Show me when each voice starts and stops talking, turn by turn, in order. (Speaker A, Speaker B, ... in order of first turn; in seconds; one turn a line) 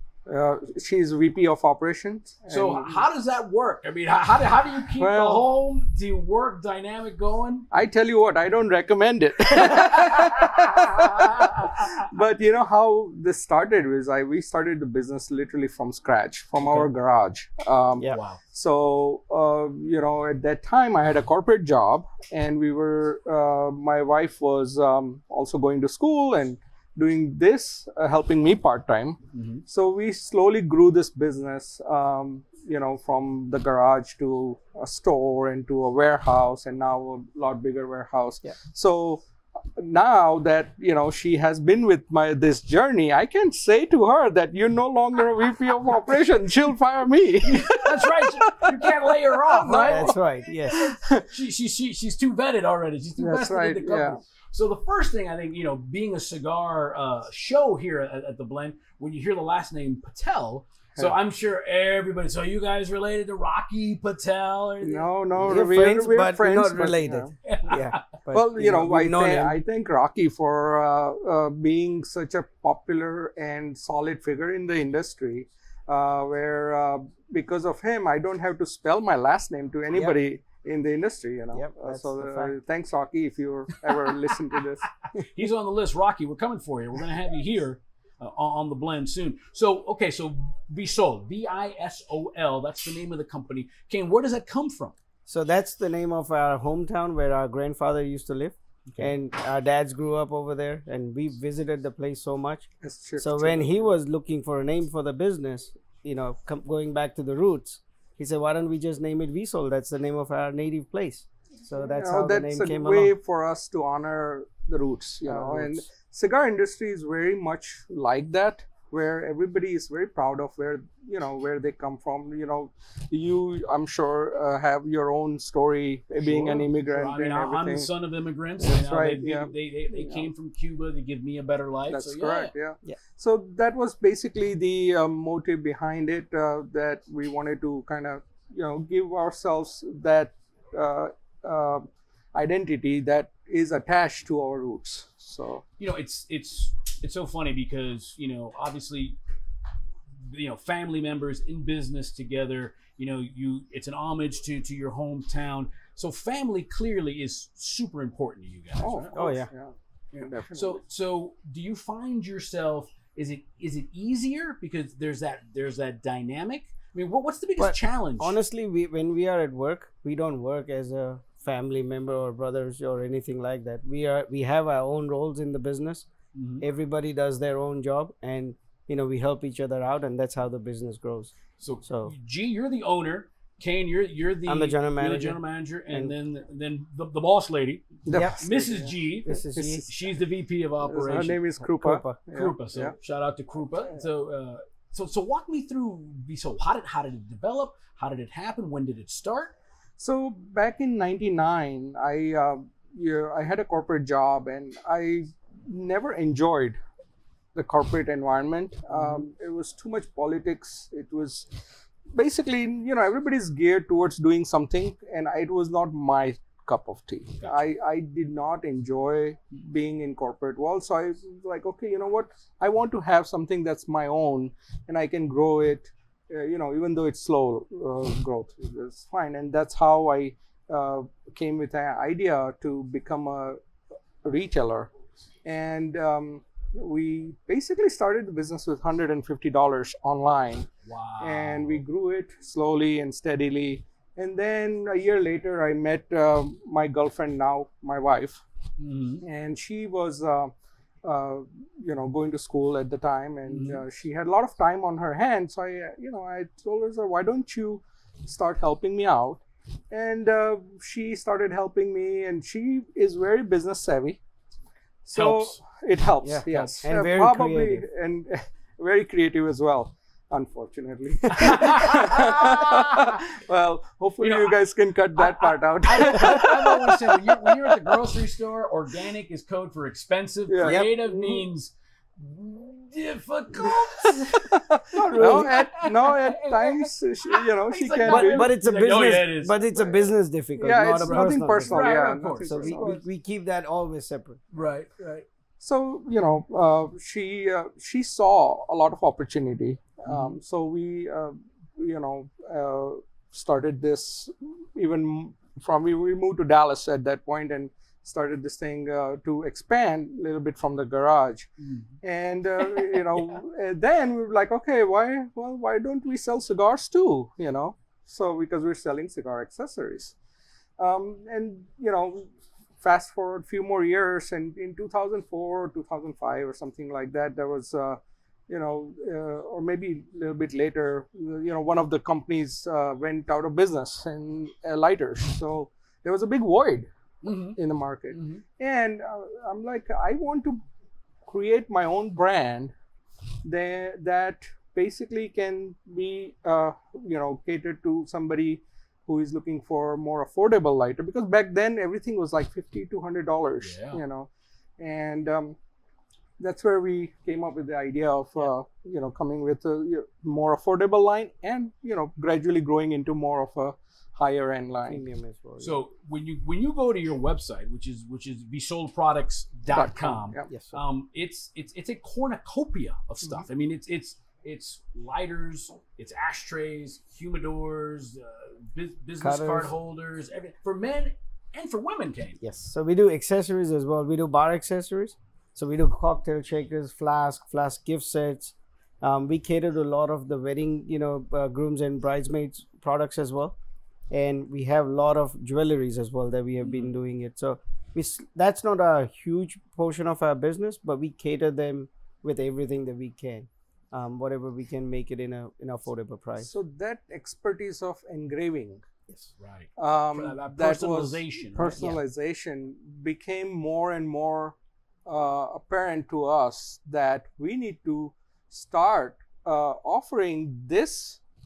Speaker A: 0.2-3.0
Speaker B: 2.5-7.7
Speaker A: 4.9-5.5
Speaker A: 7.7-39.2
Speaker B: 9.7-12.0
Speaker B: 16.6-16.9
Speaker B: 18.1-18.4
Speaker B: 29.3-29.6
Speaker A: 39.8-51.3
Speaker B: 47.4-50.2
Speaker C: 49.8-50.9
Speaker B: 50.7-65.1
Speaker A: 53.2-54.2
Speaker A: 64.8-67.3
Speaker C: 65.4-69.5
Speaker B: 67.4-68.0
Speaker A: 68.3-84.9
Speaker C: 79.9-80.2
Speaker C: 81.5-82.5
Speaker B: 83.9-94.9
Speaker C: 95.3-102.7
Speaker A: 102.8-103.9
Speaker C: 103.2-113.1
Speaker A: 111.8-127.9
Speaker C: 115.2-115.8
Speaker B: 126.2-132.5
Speaker A: 128.6-130.3
Speaker A: 131.9-145.6
Speaker B: 145.8-149.2
Speaker B: 150.2-159.1
Speaker A: 158.8-160.8
Speaker C: 159.1-159.5
Speaker B: 160.1-168.4
Speaker C: 167.6-176.1
Speaker B: 176.3-176.6
Speaker C: 176.6-182.1
Speaker B: 181.6-191.4
Speaker C: 184.4-186.1
Speaker A: 188.1-189.0
Speaker C: 188.1-188.4
Speaker C: 189.2-189.8
Speaker A: 189.6-190.0
Speaker A: 190.8-192.9
Speaker C: 191.6-192.2
Speaker B: 192.3-199.5
Speaker A: 200.0-206.8
Speaker A: 207.5-211.5
Speaker B: 208.9-209.3
Speaker A: 212.1-233.6
Speaker A: 234.2-234.9
Speaker A: 235.4-248.4
Speaker B: 240.8-241.8
Speaker B: 248.8-249.2
Speaker A: 249.2-250.5
Speaker A: 251.0-264.2
Speaker B: 253.5-253.8
Speaker A: 265.0-278.0
Speaker B: 265.1-265.6
Speaker C: 266.2-267.9
Speaker B: 266.5-266.8
Speaker B: 271.3-273.2
Speaker B: 274.2-274.6
Speaker B: 275.1-289.9
Speaker A: 280.5-281.4
Speaker C: 280.6-280.9
Speaker A: 283.6-288.5
Speaker C: 285.1-285.5
Speaker C: 288.0-294.4
Speaker A: 290.6-293.0
Speaker B: 291.1-293.0
Speaker B: 294.5-295.2
Speaker A: 295.6-311.5
Speaker B: 300.1-300.4
Speaker B: 311.6-311.9
Speaker A: 312.0-320.1
Speaker B: 312.6-313.4
Speaker A: 320.8-322.3
Speaker A: 322.8-336.9
Speaker B: 337.2-337.6
Speaker A: 337.6-340.6
Speaker B: 338.1-338.4
Speaker A: 341.3-342.7
Speaker A: 343.4-355.6
Speaker B: 353.6-354.0
Speaker A: 356.4-365.0
Speaker C: 364.9-365.8
Speaker B: 365.6-382.4
Speaker A: 369.7-370.5
Speaker C: 370.5-370.8
Speaker C: 379.2-379.7
Speaker C: 382.4-393.5
Speaker C: 394.1-406.5
Speaker B: 396.6-396.9
Speaker A: 406.4-408.9
Speaker B: 409.2-411.9
Speaker A: 409.8-421.2